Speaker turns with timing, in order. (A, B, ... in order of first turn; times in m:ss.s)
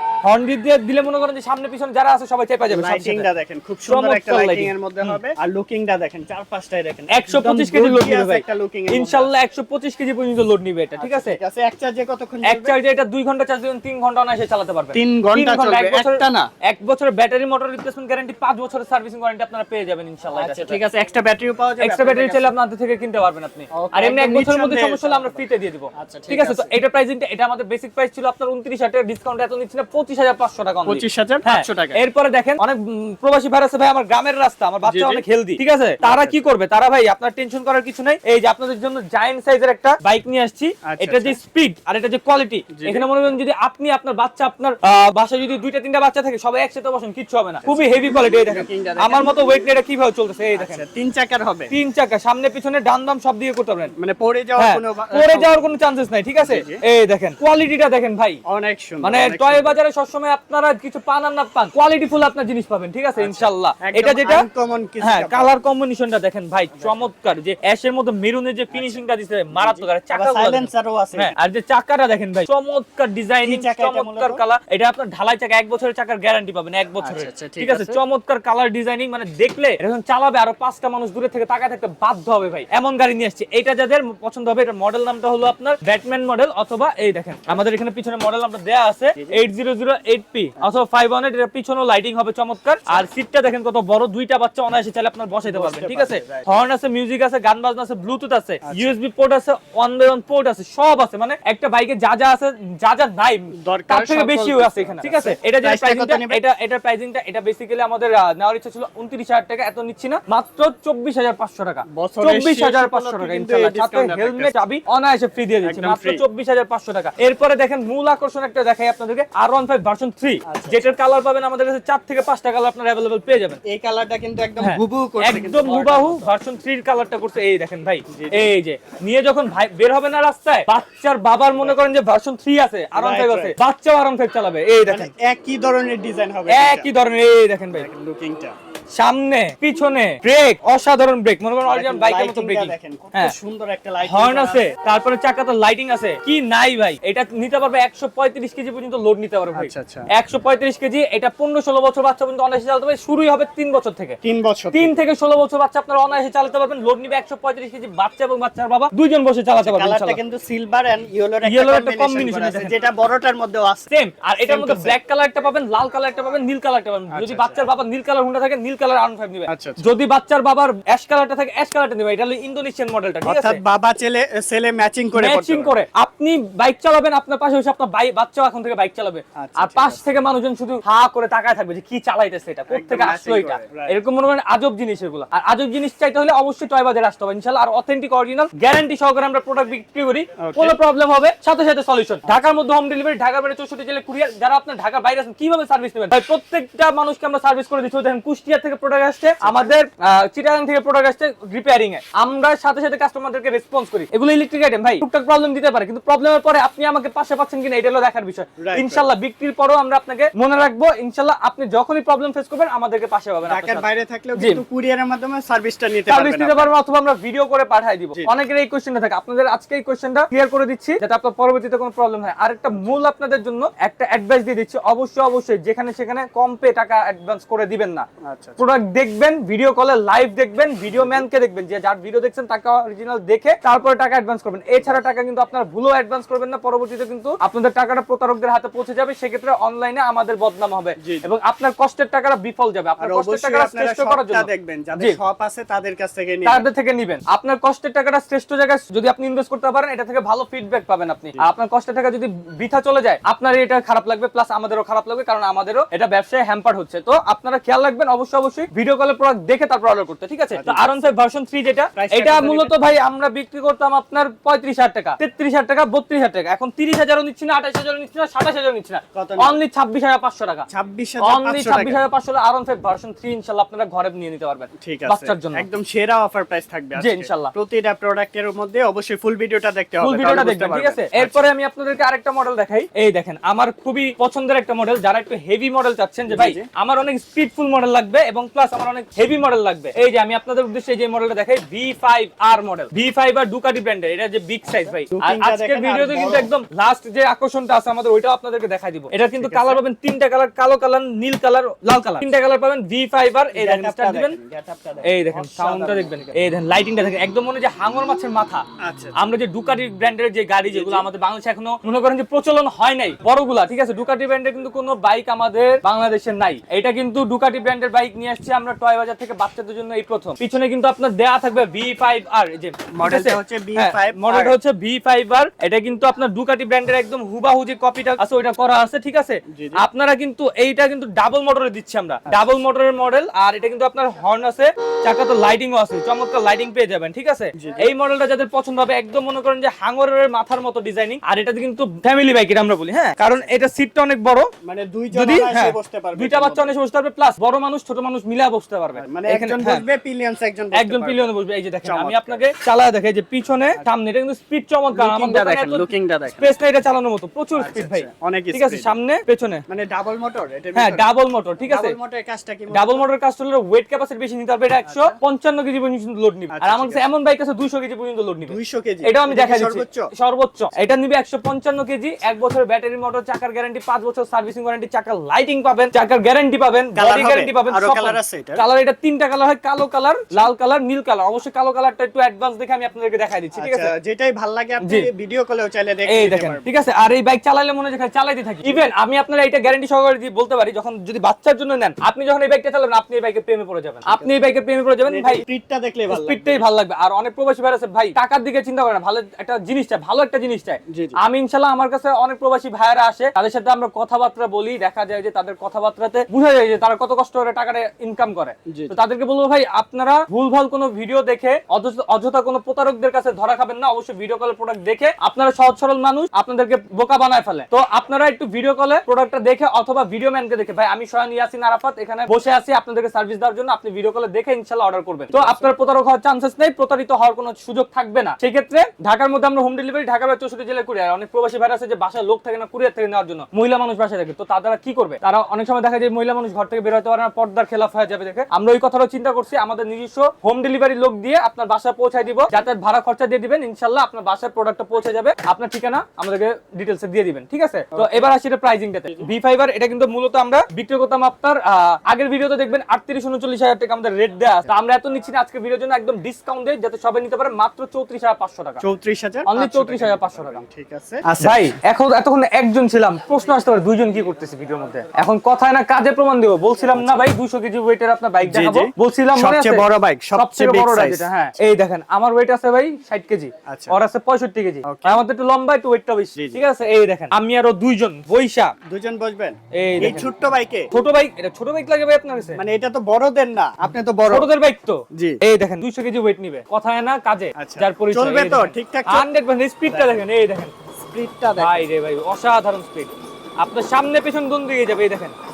0:00.2-0:03.3 A
0:02.7-0:09.3 B
0:03.9-0:05.2 A
0:07.1-0:11.4 A
0:11.0-0:12.8 B
0:12.4-0:20.8 A
0:14.9-0:16.5 B
0:20.3-0:22.5 B
0:21.8-0:50.8 A
0:23.7-0:26.8 B
0:30.9-0:32.0 B
0:34.8-0:35.2 B
0:36.0-0:36.4 B
0:40.9-0:41.4 B
0:42.7-0:43.1 B
0:47.6-0:49.6 B
0:50.6-0:51.7 B
0:51.7-0:53.9 A
0:54.0-0:55.7 B
0:54.6-0:58.4 A
0:56.4-0:56.8 B
0:58.5-0:59.8 B
0:59.0-1:04.5 A
1:03.2-1:05.7 B
1:05.0-2:03.6 A
1:06.7-1:07.1 B
1:08.7-1:09.0 B
1:09.5-1:11.3 B
1:13.4-1:14.4 B
1:17.0-1:18.0 B
1:29.2-1:29.4 B
1:30.6-1:30.8 B
1:35.4-1:36.6 B
1:38.6-1:39.0 B
1:43.6-1:46.4 B
1:51.9-1:54.5 B
1:55.6-1:56.2 B
2:00.5-2:00.9 B
2:03.6-2:06.3 B
2:04.6-2:15.1 A
2:08.1-2:08.5 B
2:11.6-2:11.8 B
2:13.0-2:13.6 B
2:14.8-2:16.9 B
2:16.5-2:17.9 A
2:17.7-2:18.6 B
2:18.9-2:23.4 A
2:21.7-2:24.7 B
2:24.0-2:34.2 A
2:29.6-2:30.1 B
2:34.2-2:35.0 B
2:34.7-2:40.2 A
2:39.6-2:43.9 B
2:41.4-2:42.7 A
2:43.9-2:53.6 A
2:44.5-2:45.0 B
2:47.1-2:47.7 B
2:49.5-2:49.8 B
2:53.2-2:55.8 B
2:55.2-3:34.6 A
2:59.4-3:00.0 B
3:02.7-3:04.0 B
3:10.4-3:10.8 B
3:19.4-3:19.7 B
3:28.6-3:29.1 B
3:33.5-3:36.7 B
3:36.1-3:48.1 A
3:48.2-3:48.6 B
3:48.6-4:05.2 A
3:50.9-3:51.3 B
3:54.8-3:55.0 B
4:01.0-4:01.3 B
4:03.0-4:06.7 B
4:06.4-4:30.7 A
4:20.5-4:21.1 B
4:21.9-4:22.7 B
4:29.1-4:29.6 B
4:30.7-4:32.0 B
4:31.2-4:35.7 A
4:34.8-4:41.4 B
4:37.0-4:37.5 A
4:40.0-5:04.4 A
4:46.3-4:46.7 B
4:54.7-4:56.5 B
4:59.3-4:59.8 B
5:03.5-5:06.5 B
5:05.0-5:08.6 A
5:08.8-5:09.3 B
5:09.2-5:44.5 A
5:10.7-5:11.1 B
5:22.9-5:24.6 B
5:29.5-5:29.8 B
5:32.3-5:32.6 B
5:37.6-5:37.9 B
5:43.2-5:43.5 B
5:44.6-5:46.8 B
5:45.1-5:49.8 A
5:49.0-5:51.3 B
5:50.7-5:59.6 A
5:51.8-5:52.4 B
5:54.9-5:56.5 B
5:57.6-5:58.9 B
5:59.7-6:01.1 B
6:00.8-6:02.0 A
6:01.7-6:03.0 B
6:02.7-6:23.9 A
6:04.8-6:05.2 B
6:06.5-6:07.0 B
6:08.5-6:10.1 B
6:17.0-6:18.6 B
6:23.5-6:26.7 B
6:24.8-6:25.1 A
6:26.1-6:35.4 A
6:34.1-6:34.3 B
6:35.1-6:36.6 B
6:36.1-7:38.8 A
6:40.9-6:41.2 B
6:48.7-6:49.0 B
7:05.3-7:05.7 B
7:27.9-7:28.3 B
7:38.8-7:41.8 B
7:39.5-7:40.6 A
7:41.4-7:58.7 A
7:46.8-7:47.3 B
7:48.4-7:51.3 B
7:53.7-7:54.0 B
7:54.8-7:55.2 B
7:56.4-7:56.6 B
7:58.9-8:00.9 B
7:59.7-8:00.3 A
8:00.9-8:02.6 A
8:02.6-8:04.5 B
8:04.3-8:10.7 A
8:05.1-8:05.4 B
8:07.6-8:09.3 B
8:09.9-8:10.3 B
8:11.0-8:11.9 B
8:11.6-8:15.3 A